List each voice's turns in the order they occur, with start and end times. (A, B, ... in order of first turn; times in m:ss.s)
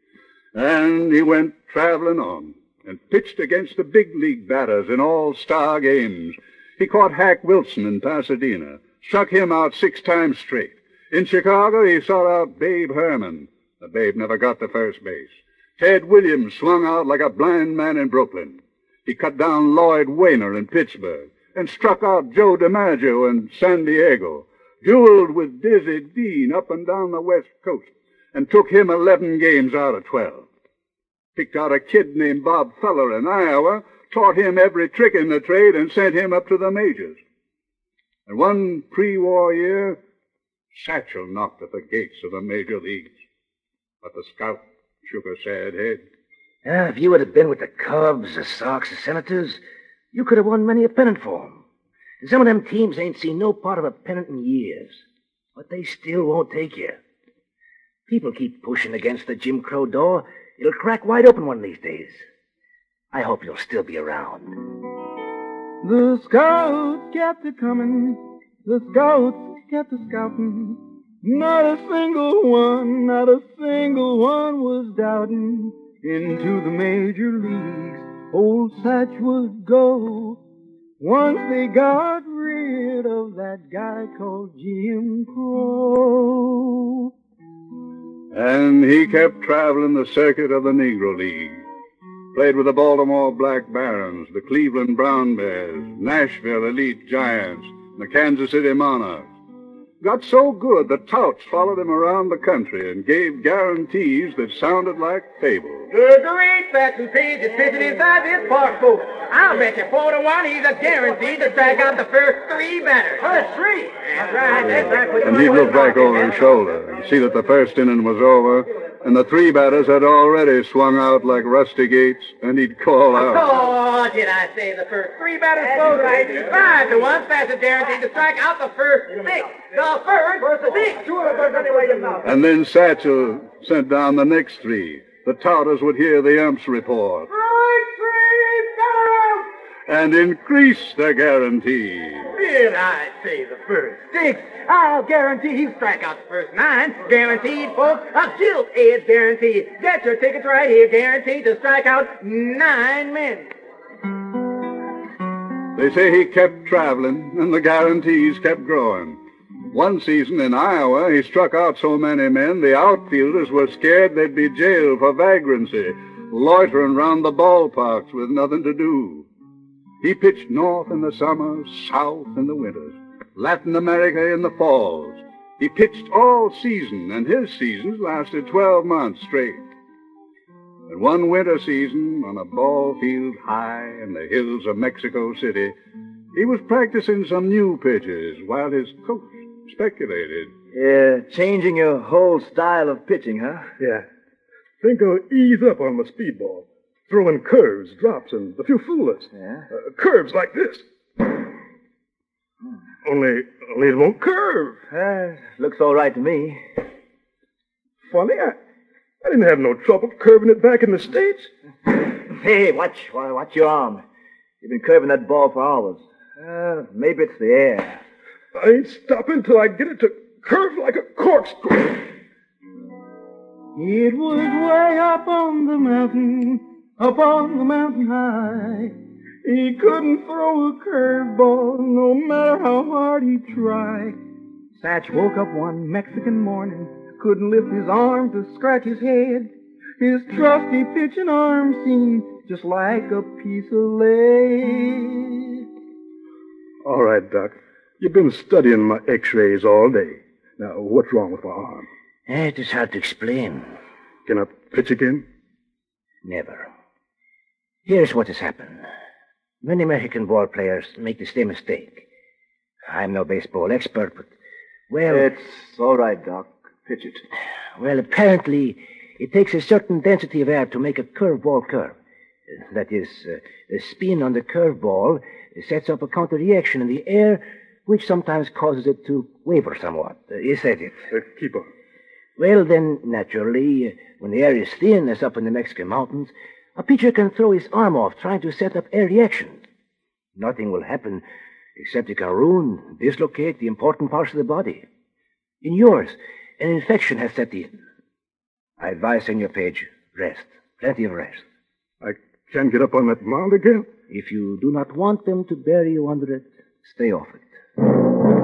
0:00.5-0:30.5 A
0:31.4-0:37.2 A
0:38.3-0:40.0 A
0:40.7-0:43.2 A
0:44.0-0:46.0 A
0:46.6-0:49.6 B
0:50.1-0:51.6 B
0:52.2-0:55.0 B
0:55.6-0:57.0 B
0:58.1-1:02.2 B
1:03.1-1:04.6 B
1:05.8-1:20.4 C
1:21.0-1:27.1 C
1:28.3-1:31.6 A
1:32.3-1:39.3 A
1:40.0-1:45.9 A
1:45.9-1:56.4 D
1:55.2-2:03.5 A
2:03.1-2:12.2 D
2:12.2-2:17.3 A
2:17.3-2:19.4 D
2:19.9-2:22.3 A
2:22.3-2:33.5 D
2:35.8-2:39.2 A
2:39.7-2:49.3 A
2:50.0-2:59.6 A
3:00.9-3:05.8 A
3:06.3-3:10.5 A
3:10.7-3:13.7 E
3:13.8-3:14.1 F
3:14.8-3:21.4 F
3:19.3-3:19.7 E
3:23.0-3:24.8 F
3:24.8-3:26.6 E
3:28.0-3:28.6 F
3:29.2-3:31.5 F
3:32.1-3:34.0 E
3:34.6-3:38.0 E
3:38.5-3:42.1 F
3:43.8-3:48.9 C
3:49.4-3:54.2 C
3:54.8-4:05.3 C
4:06.8-4:11.9 F
4:12.3-4:13.7 B
4:14.3-4:15.2 F
4:16.2-4:16.7 B
4:17.8-4:18.8 B
4:19.6-4:22.1 B
4:22.9-4:24.3 B
4:24.9-4:25.3 B
4:25.1-4:27.2 E
4:27.8-4:32.0 B
4:32.5-4:41.0 B
4:41.1-4:41.7 F
4:42.4-4:49.6 B
4:50.4-4:51.2 B
4:51.8-4:54.8 B
4:55.6-4:57.8 B
4:58.8-5:01.4 B
5:02.0-5:03.9 F
5:04.1-5:07.5 B